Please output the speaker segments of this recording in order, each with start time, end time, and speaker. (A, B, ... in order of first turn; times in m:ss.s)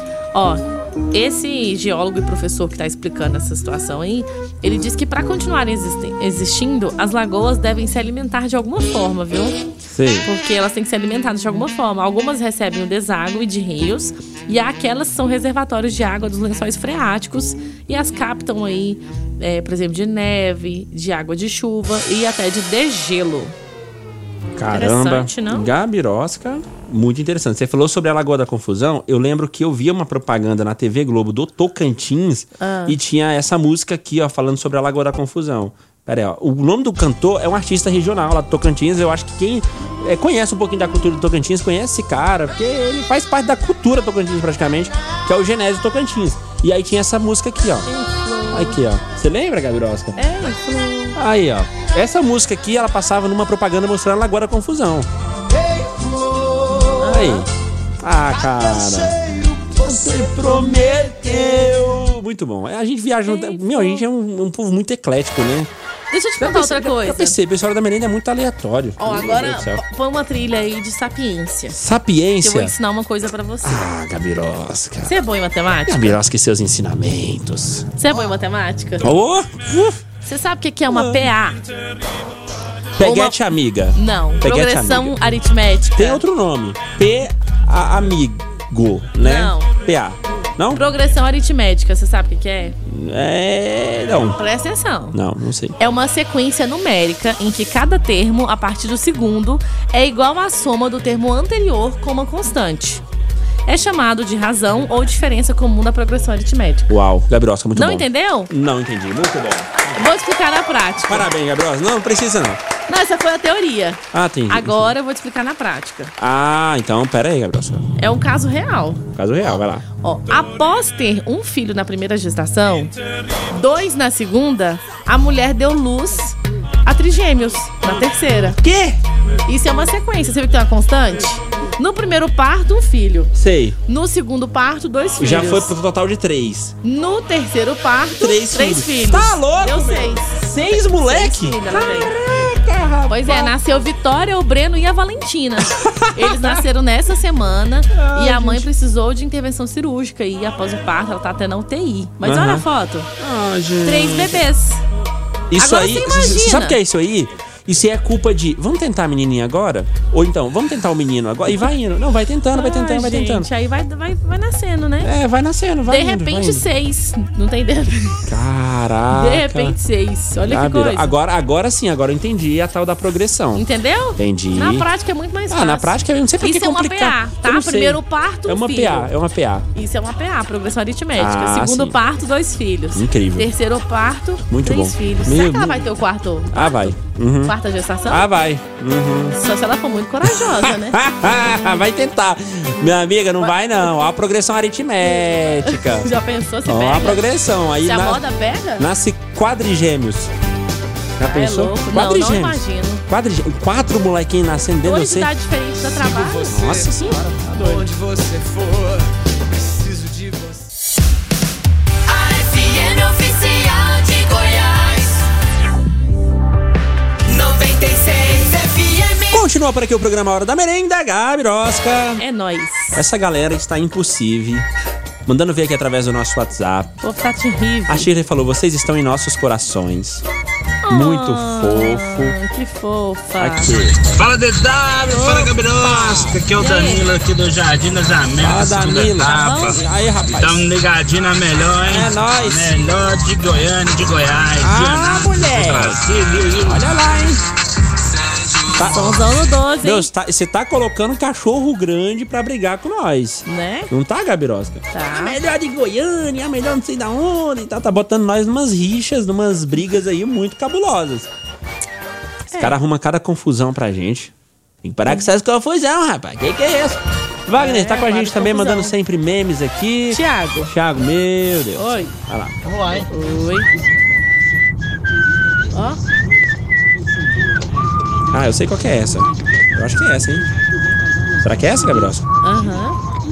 0:00.3-0:09.6 A
0:09.9-0:10.3 B
0:10.2-0:23.5 A
0:24.6-0:47.9 B
0:24.7-0:25.7 A
0:32.6-0:33.0 A
0:47.8-0:48.8 A
0:48.5-0:50.2 B
0:50.2-0:51.2 A
0:51.2-0:55.1 B
0:57.0-0:57.4 A
0:57.1-0:57.5 B
0:58.0-0:59.2 B
0:59.7-1:05.7 B
1:03.2-1:04.0 A
1:06.1-1:07.4 A
1:06.4-1:09.8 B
1:09.0-1:11.8 A
1:11.7-1:12.7 B
1:12.4-1:13.8 A
1:13.6-1:15.1 B
1:15.0-1:16.2 A
1:15.9-1:17.9 B
1:18.0-1:19.1 A
1:19.0-1:20.0 B
1:20.2-1:21.6 A
1:20.9-1:21.3 B
1:23.0-1:25.1 B
1:23.0-1:23.4 A
1:23.9-1:26.2 A
1:26.0-1:30.8 B
1:29.2-1:29.7 A
1:30.7-1:32.8 A
1:32.8-1:34.4 B
1:34.4-1:35.2 A
1:35.1-1:35.8 B
1:35.8-1:43.0 A
1:43.7-1:46.9 A
1:46.9-1:50.0 B
1:47.7-1:48.5 A
1:49.9-1:51.2 A
1:51.1-1:52.6 B
1:52.9-1:56.1 A
1:54.1-1:54.9 B
1:56.2-1:57.8 B
1:58.0-1:59.0 A
1:59.1-1:59.8 B
2:00.0-2:02.9 A
2:03.5-2:08.6 A
2:08.6-2:09.0 B
2:09.4-2:13.3 A
2:13.3-2:13.8 B
2:13.9-2:15.7 A
2:15.2-2:16.7 B
2:16.8-2:22.1 A
2:18.2-2:23.5 B
2:23.1-2:33.1 A
2:25.7-2:26.6 B
2:27.9-2:28.6 B
2:32.2-2:32.6 B
2:33.2-2:34.4 B
2:33.8-2:34.8 A
2:35.5-2:43.5 B
2:35.6-2:36.8 A
2:42.5-2:45.1 A
2:45.0-2:46.6 B
2:45.9-2:48.3 A
2:48.3-2:49.8 B
2:49.1-2:51.1 A
2:50.5-2:53.6 B
2:53.5-2:59.1 A
2:54.2-2:54.9 B
2:55.5-2:59.7 B
2:59.7-3:08.3 A
3:01.2-3:02.0 B
3:02.9-3:03.5 B
3:04.5-3:05.9 B
3:06.5-3:07.5 B
3:08.1-3:09.4 B
3:09.3-3:11.0 A
3:10.2-3:16.1 B
3:13.4-3:14.1 A
3:15.0-3:17.2 A
3:16.7-3:18.2 B
3:17.8-3:18.8 A
3:18.8-3:20.3 B
3:21.2-3:25.3 B
3:21.2-3:23.0 A
3:24.8-3:27.8 A
3:26.0-3:30.6 C
3:26.5-3:27.2 B
3:32.1-3:35.2 D
3:37.3-3:39.4 D
3:39.3-3:42.2 B
3:42.2-3:43.0 A
3:42.9-3:44.7 B
3:45.2-3:46.9 B
3:47.0-3:48.1 A
3:47.9-3:50.2 B
3:50.8-3:53.7 A
3:50.9-3:52.4 B
3:53.4-3:54.0 B
3:54.1-4:06.8 E
3:55.1-3:56.4 B
3:56.6-3:57.0 A
3:58.4-4:00.7 B
3:59.2-3:59.8 A
4:01.9-4:02.8 B
4:04.6-4:07.4 B
4:08.7-4:09.3 B
4:08.9-4:10.1 A
4:09.8-4:21.3 B
4:13.4-4:13.9 A
4:14.9-4:15.4 A
4:22.5-4:22.8 A
4:22.6-4:24.3 B
4:24.8-4:33.1 B
4:27.6-4:28.9 A
4:30.1-4:30.7 A
4:31.8-4:32.1 A
4:33.1-4:33.7 A
4:35.7-4:36.0 A
4:38.3-4:40.6 B
4:41.4-4:42.3 B
4:41.8-4:43.0 A